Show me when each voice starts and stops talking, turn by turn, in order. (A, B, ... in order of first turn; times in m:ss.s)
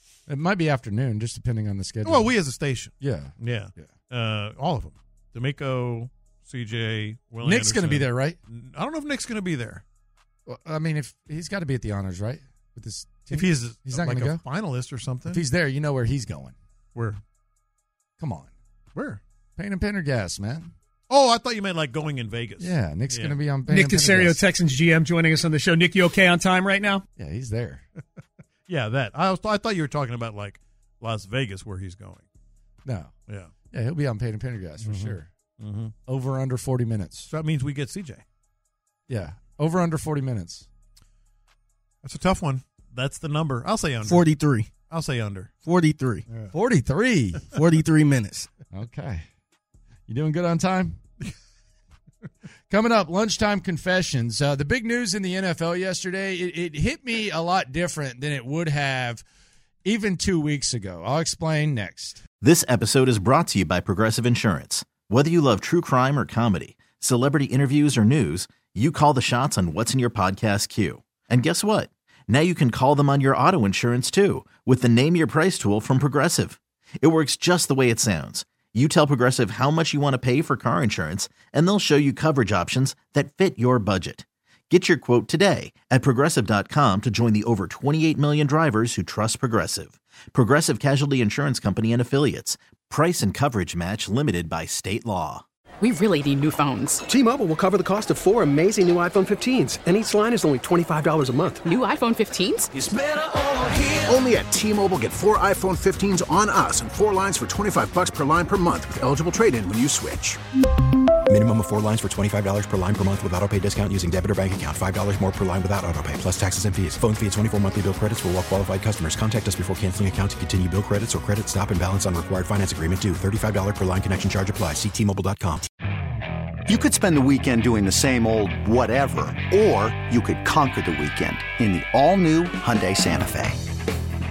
0:00.3-0:02.3 A
0:02.0-0:09.8 B
0:03.0-0:03.9 A
0:07.4-0:08.4 A
0:10.5-0:14.4 A
0:13.3-0:15.4 B
0:15.3-0:16.6 A
0:17.0-0:17.2 B
0:18.2-0:18.5 A
0:19.0-0:19.2 B
0:19.6-0:20.7 A
0:21.1-0:23.4 B
0:22.6-0:24.5 A
0:23.7-0:27.0 C
0:27.2-0:27.8 A
0:28.7-0:32.2 B
0:32.8-0:33.1 A
0:33.7-0:35.3 A
0:34.8-0:35.9 B
0:36.1-0:37.3 A
0:37.3-0:38.2 B
0:39.1-0:40.7 A
0:42.0-0:44.4 B
0:44.0-0:44.7 D
0:44.9-0:45.5 B
0:45.6-0:46.2 D
0:46.5-0:47.6 A
0:47.5-0:48.5 D
0:48.7-0:49.2 A
0:50.1-0:51.0 A
0:52.7-0:59.2 A
0:59.8-1:02.2 A
1:02.4-1:35.4 E
1:35.8-1:37.0 F
1:37.1-1:41.7 G
1:41.6-1:42.7 F
1:42.8-1:50.4 H
1:51.3-2:05.7 I
2:06.7-2:13.6 J